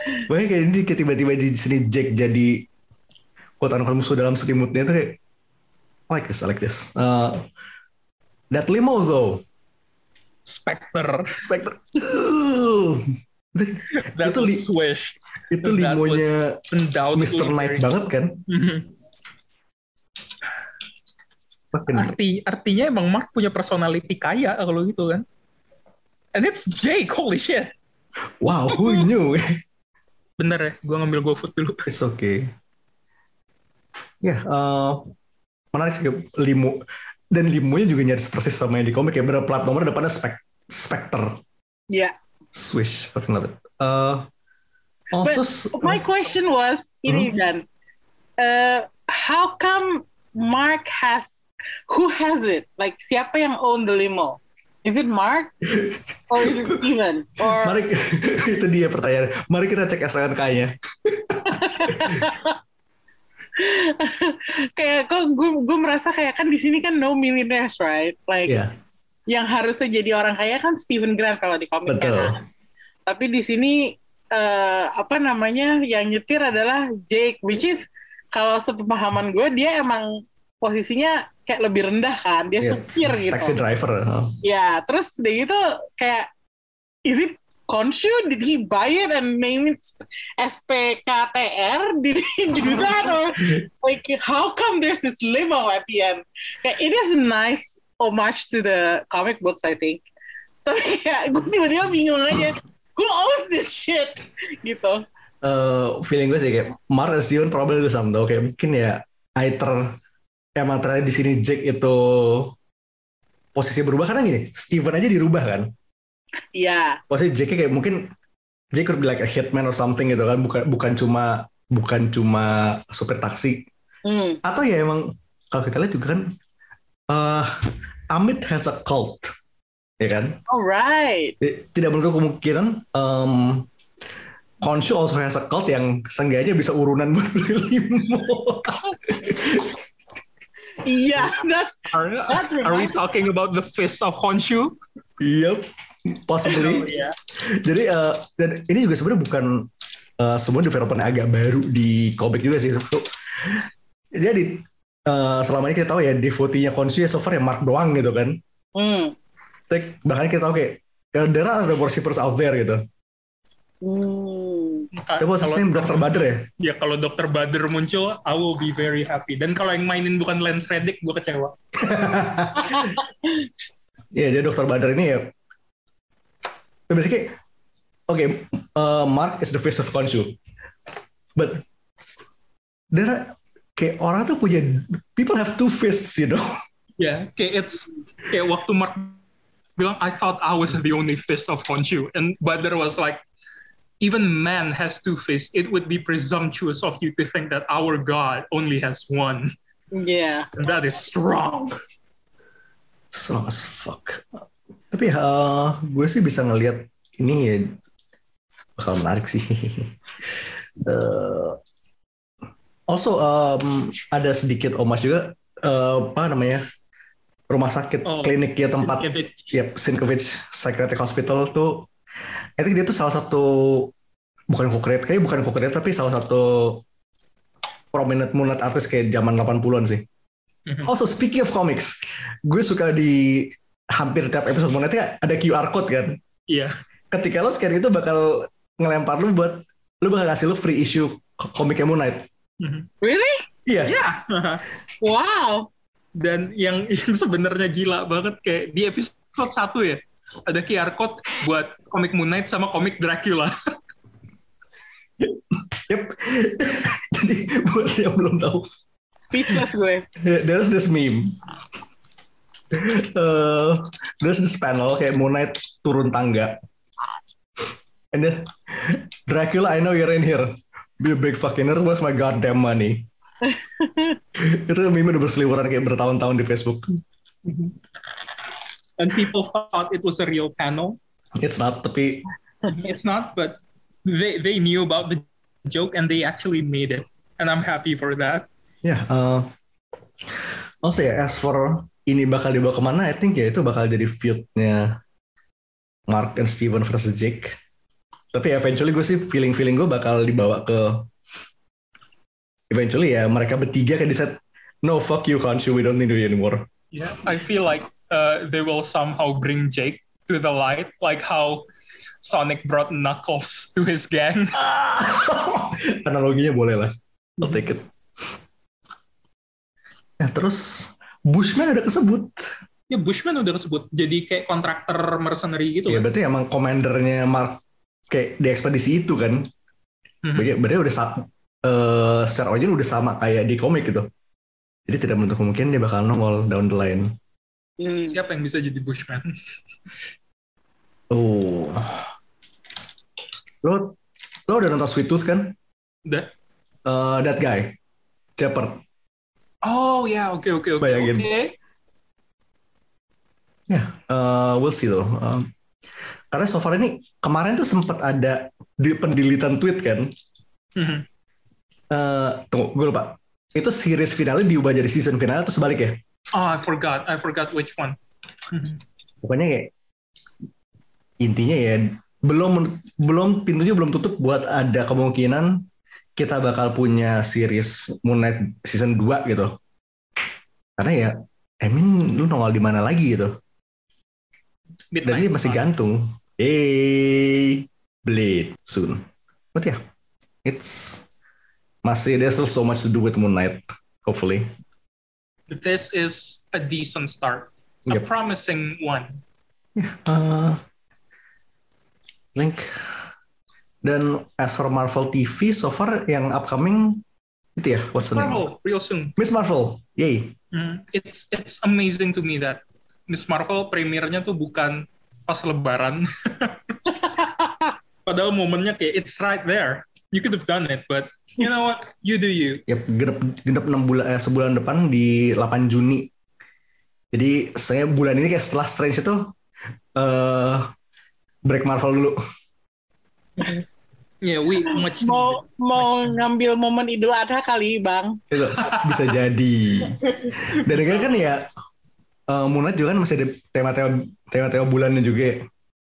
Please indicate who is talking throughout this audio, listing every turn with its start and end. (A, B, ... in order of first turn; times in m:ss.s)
0:00.3-0:02.6 A
0:03.6-0:05.2 A
0:06.1-0:07.4 A
0:08.5-0:09.4 A
0:10.4-0:11.4 B
0:11.4-0:14.7 A
0:13.9-0:17.9 B
0:15.5-0:16.6 A
0:17.1-0:18.4 A
0:18.5-0:18.9 B
0:21.7-0:22.1 A
0:21.9-0:25.2 B
0:26.3-0:27.7 B
0:28.4-0:29.4 A
0:28.8-0:29.0 B
0:30.4-0:31.8 B
0:31.9-0:32.5 A
0:34.2-0:35.1 A
0:35.7-0:41.4 A
0:42.5-0:44.3 A
0:45.1-0:46.0 A
0:45.2-0:47.6 C
0:47.1-0:47.3 A
0:48.4-0:51.3 C
0:51.9-0:55.5 C
0:55.7-0:56.8 A
0:56.3-0:57.7 C
0:57.4-1:02.2 A
1:01.5-1:02.5 C
1:03.6-1:08.6 C
1:08.4-1:08.7 A
1:09.3-1:12.4 C
1:11.8-1:12.4 A
1:13.1-1:13.8 C
1:14.3-1:23.6 C
1:22.6-1:24.3 A
1:24.4-1:26.3 C
1:27.0-1:40.0 C
1:40.6-1:45.0 C
1:45.4-1:49.9 A
1:50.6-1:52.5 A
1:53.5-1:55.7 A
1:56.5-1:57.0 C
1:57.1-1:58.1 A
1:58.7-2:03.7 A
2:04.0-2:04.4 C
2:04.4-2:06.2 A
2:07.1-2:07.5 A
2:08.1-2:09.3 A
2:10.0-2:10.4 A
2:10.5-2:11.3 C
2:11.4-2:13.7 A
2:14.6-2:19.7 A
2:20.8-2:22.9 C
2:21.9-2:24.8 B
2:25.2-2:26.9 A
2:26.4-2:27.2 B
2:27.5-2:29.6 A
2:30.2-2:33.6 A
2:34.1-2:38.4 A
2:38.8-2:39.1 C
2:39.7-2:42.8 A
2:43.8-2:44.9 C
2:45.0-2:51.5 B
2:45.2-2:46.4 A
2:51.8-2:52.8 A
2:54.1-2:55.3 A
2:56.9-2:57.4 A
2:58.1-3:00.4 A
3:01.4-3:01.6 A
3:02.9-3:06.5 A
3:07.0-3:09.2 B
3:09.8-3:13.2 B
3:14.0-3:19.5 B
3:19.9-3:20.5 C
3:20.6-3:21.8 B
3:23.1-3:27.8 A
3:28.8-3:30.0 A
3:30.8-3:31.6 A
3:32.9-3:36.6 A
3:37.5-3:41.9 A
3:38.0-3:39.5 B
3:42.6-3:43.9 A
3:44.5-3:46.8 A
3:47.9-3:50.0 A
3:50.7-3:50.9 B
3:50.8-3:51.9 A
3:52.4-3:56.2 A
3:57.1-4:02.2 A
4:02.6-4:02.9 B
4:03.0-4:03.4 C
4:03.7-4:04.1 A
4:03.8-4:04.6 B
4:05.0-4:05.7 C
4:06.2-4:13.5 B
4:15.2-4:18.7 A
4:19.3-4:20.0 C
4:20.2-4:21.4 A
4:22.7-4:26.6 A
4:28.1-4:33.1 A
4:33.5-4:34.2 C
4:34.4-4:36.9 A
4:37.4-4:37.7 B
4:39.0-4:41.0 B
4:41.4-4:42.2 A
4:42.7-4:48.5 B
4:48.8-4:49.5 A
4:50.4-4:54.9 A
4:56.1-4:57.6 A
4:58.3-5:01.1 A
5:02.7-5:06.6 A
5:06.9-5:11.6 B
5:12.2-5:14.6 B
5:14.5-5:17.9 A
5:17.4-5:17.7 B
5:20.2-5:22.5 A
5:22.9-5:26.1 B
5:25.9-5:29.4 A
5:30.2-5:30.5 B
5:30.4-5:34.1 A
5:34.9-5:37.1 A
5:37.8-5:38.1 C
5:38.1-5:39.3 B
5:41.1-5:42.0 A
5:43.6-5:43.9 A
5:44.5-5:45.5 A
5:46.0-5:46.3 B
5:46.8-5:47.8 A
5:48.4-5:48.8 A
5:49.6-5:51.5 B
5:50.8-5:51.3 A
5:53.7-5:55.5 A
5:56.3-6:00.1 A
6:00.8-6:01.0 B
6:01.9-6:06.0 A
6:06.3-6:08.0 B
6:08.5-6:08.8 B
6:09.2-6:09.7 A
6:11.2-6:15.6 A
6:16.2-6:19.5 A
6:20.8-6:23.4 A
6:24.9-6:25.6 B
6:25.0-6:29.8 A
6:30.4-6:31.0 A
6:31.8-6:34.5 A
6:35.5-6:39.2 B
6:39.8-6:40.6 A
6:42.3-6:43.0 A
6:43.8-6:47.0 A
6:47.6-6:48.4 A
6:48.1-6:49.2 B
6:49.2-6:50.3 A
6:50.5-6:56.8 B
6:58.0-7:02.6 B
7:02.7-7:06.1 A
7:07.1-7:09.3 A
7:10.0-7:10.7 A
7:11.4-7:12.2 A
7:14.2-7:16.2 B
7:15.0-7:18.2 C
7:18.3-7:20.0 A
7:18.6-7:19.1 B
7:20.2-7:21.4 B
7:20.5-7:21.4 A
7:22.3-7:25.4 A